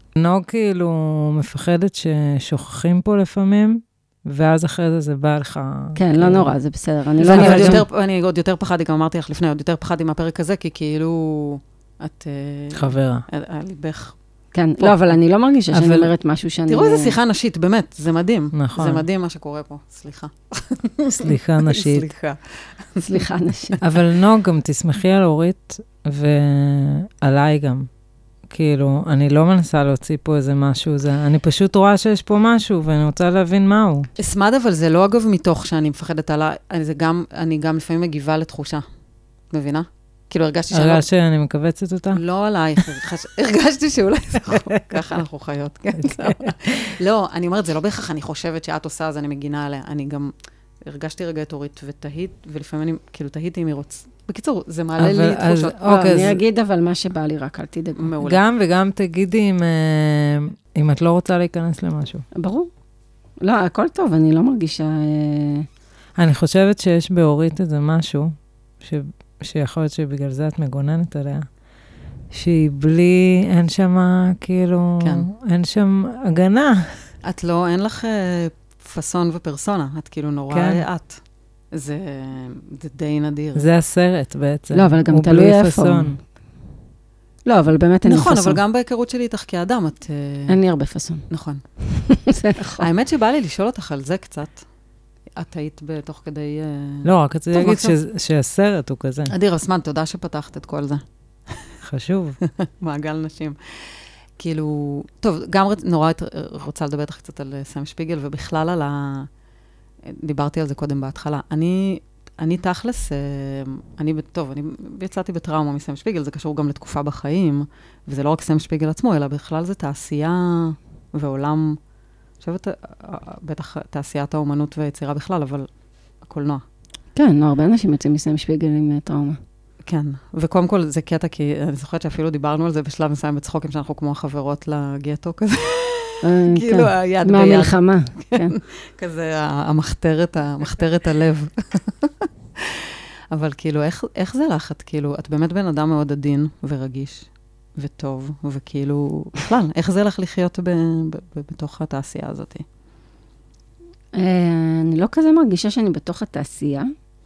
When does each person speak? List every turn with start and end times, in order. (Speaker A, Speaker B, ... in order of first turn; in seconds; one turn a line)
Speaker A: 0.2-6.5
Speaker B: 6.0-7.8
Speaker C: 7.2-14.2
Speaker A: 7.2-7.8
Speaker A: 12.7-13.3
Speaker B: 14.5-17.2
Speaker A: 15.7-16.1
Speaker C: 16.7-23.7
Speaker A: 18.5-19.0
Speaker A: 21.2-22.1
Speaker B: 23.1-23.8
Speaker A: 23.8-27.9
Speaker A: 28.5-34.1
Speaker C: 34.2-38.9
Speaker C: 39.5-41.1
Speaker A: 40.7-42.2
Speaker C: 42.1-56.1
Speaker A: 46.0-46.5
Speaker A: 55.0-56.4
Speaker B: 55.8-58.1
Speaker C: 58.0-58.4
Speaker A: 58.2-62.2
Speaker B: 62.3-62.7
Speaker B: 63.4-65.7
Speaker A: 66.2-71.5
Speaker A: 72.3-77.0
Speaker C: 75.0-75.3
Speaker C: 77.2-83.7
Speaker A: 80.5-80.8
Speaker A: 83.6-86.2
Speaker B: 84.7-86.2
Speaker B: 87.5-88.6
Speaker C: 88.0-90.6
Speaker B: 90.5-91.3
Speaker C: 91.3-91.6
Speaker B: 91.8-92.9
Speaker C: 92.6-94.7
Speaker C: 95.4-98.0
Speaker A: 97.0-99.3
Speaker C: 99.3-101.7
Speaker A: 101.8-102.4
Speaker C: 102.4-109.3
Speaker C: 110.1-121.8
Speaker C: 122.4-125.7
Speaker C: 126.2-126.6
Speaker B: 127.2-129.4
Speaker C: 129.8-152.7
Speaker B: 136.2-138.6
Speaker B: 154.1-156.9